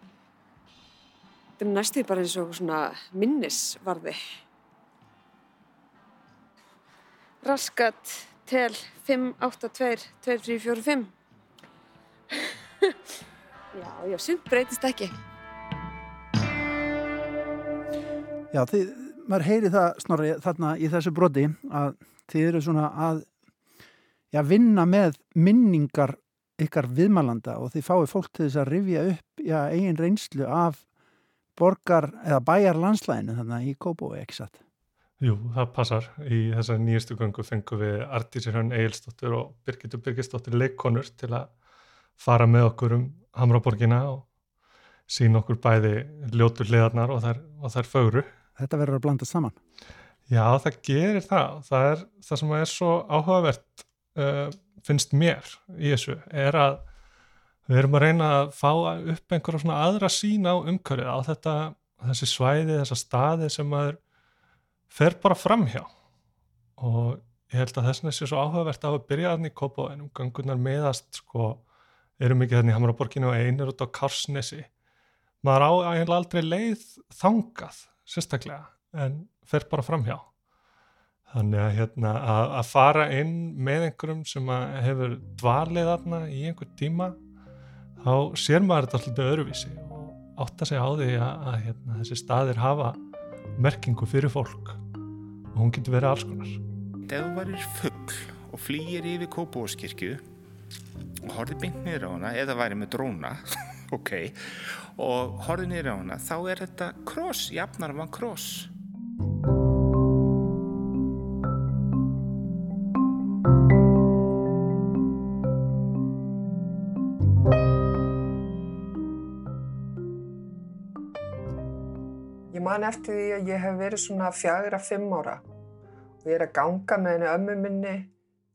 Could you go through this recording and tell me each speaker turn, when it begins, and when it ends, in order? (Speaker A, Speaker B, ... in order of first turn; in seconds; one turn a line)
Speaker A: 1.6-4.2
Speaker A: 7.4-11.1
Speaker A: 13.7-15.1
Speaker B: 18.5-23.3
Speaker B: 24.3-30.8
Speaker B: 31.6-34.6
Speaker C: 35.2-41.5
Speaker C: 42.2-44.3
Speaker C: 45.1-48.3
Speaker B: 48.6-49.6
Speaker C: 50.3-56.9
Speaker C: 57.7-64.0
Speaker C: 64.9-65.9
Speaker C: 66.8-71.6
Speaker C: 72.2-74.7
Speaker C: 75.4-80.3
Speaker C: 81.3-87.2
Speaker C: 88.0-93.0
Speaker C: 93.6-94.8
Speaker C: 95.5-96.6
Speaker D: 97.1-100.2
Speaker D: 101.2-108.7
Speaker E: 122.5-125.4
Speaker E: 126.2-128.1